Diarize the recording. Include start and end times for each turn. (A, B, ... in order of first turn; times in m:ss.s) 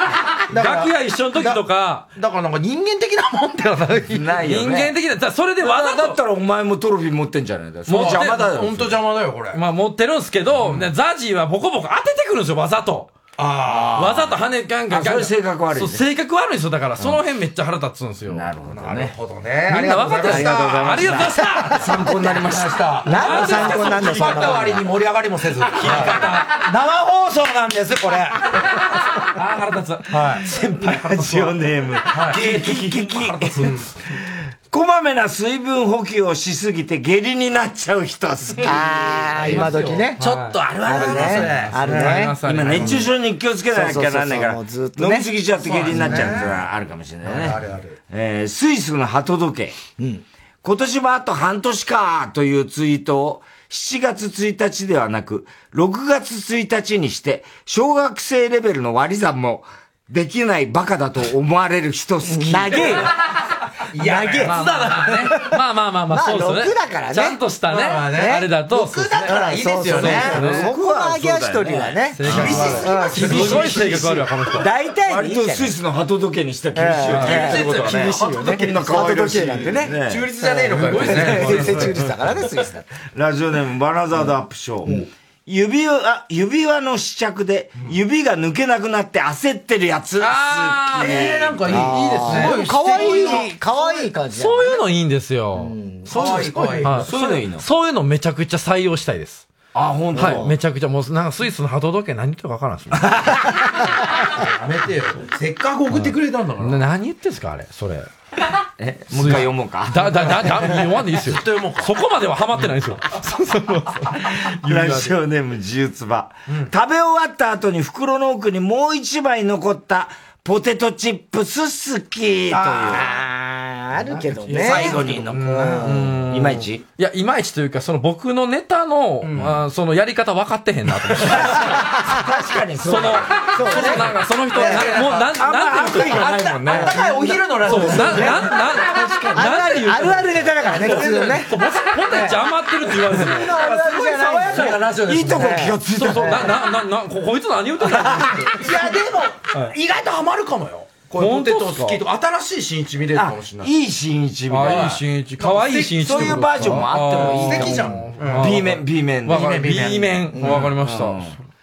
0:00.5-0:02.1 A
0:00.5-0:01.6 B
0:02.2-0:04.3 B
0:04.1-0:05.0 C
0:04.5-0:06.2 A
0:05.6-0:09.0 C
0:07.9-0:08.5 A
0:07.9-0:09.6 B
0:09.5-0:13.1 A
0:13.4-0:14.0 B
0:13.6-0:14.4 C
0:14.0-0:18.5 A
0:14.9-0:16.0 C
0:18.3-0:19.1 C
0:18.7-0:20.8 B
0:19.7-0:22.0 A
0:19.8-0:22.8 C
0:22.0-0:28.5 B
0:23.0-0:24.8 D
0:23.2-0:24.8 A
0:25.6-0:26.6 A
0:29.2-0:31.6 A
0:30.1-0:30.4 B
0:30.8-0:33.7 C
0:32.1-0:32.5 B
0:32.1-0:33.9 A
0:34.7-0:40.0 C
0:38.6-0:40.2 D
0:39.4-0:43.1 A
0:40.2-0:42.3 B
0:40.8-0:42.4 D
0:42.4-0:49.8 C
0:43.7-0:45.3 D
0:45.6-0:46.6 B
0:47.2-0:48.0 B
0:50.0-0:50.2 D
0:50.6-1:03.0 C
1:02.3-1:03.1 D
1:03.9-1:05.4 B
1:04.0-1:05.5 D
1:04.4-1:09.4 A
1:06.1-1:07.4 D
1:07.7-1:10.4 B
1:08.1-1:08.5 D
1:09.3-1:15.7 D
1:09.9-1:10.7 A
1:10.3-1:13.7 C
1:12.1-1:14.7 A
1:12.3-1:14.2 B
1:14.8-1:20.3 C
1:16.8-1:22.9 D
1:17.1-1:17.6 A
1:17.2-1:21.9 B
1:20.8-1:22.0 A
1:21.6-1:22.2 C
1:23.1-1:32.5 C
1:30.2-1:31.2 A
1:31.0-1:33.5 B
1:31.7-1:34.8 D
1:34.3-1:39.5 A
1:35.6-1:36.2 D
1:36.2-1:37.1 B
1:36.9-1:37.6 C
1:39.7-1:40.5 C
1:40.2-1:43.4 A
1:44.3-1:46.8 B
1:45.9-1:48.1 A
1:48.8-1:50.4 C
1:49.1-1:55.1 A
1:50.4-1:51.9 B
1:54.2-2:03.1 C
2:02.6-2:05.0 D
2:04.4-2:11.9 A
2:04.5-2:06.8 C
2:05.6-2:06.0 D
2:09.2-2:09.5 B
2:11.3-2:13.9 C
2:12.8-2:16.8 A
2:13.5-2:14.0 D
2:13.7-2:15.2 B
2:14.6-2:17.0 C
2:16.7-2:18.4 D
2:16.8-2:19.5 B
2:17.7-2:23.6 A
2:17.7-2:18.3 C
2:19.3-2:21.5 D
2:20.7-2:21.6 B
2:22.1-2:22.4 D
2:23.1-2:25.8 D
2:23.2-2:25.7 B
2:25.1-2:26.6 C
2:26.0-2:28.7 A
2:28.4-2:33.7 B
2:31.2-2:32.0 A
2:33.1-2:35.0 C
2:34.5-2:41.4 A
2:34.7-2:38.6 B
2:35.9-2:41.4 C
2:39.3-2:40.3 B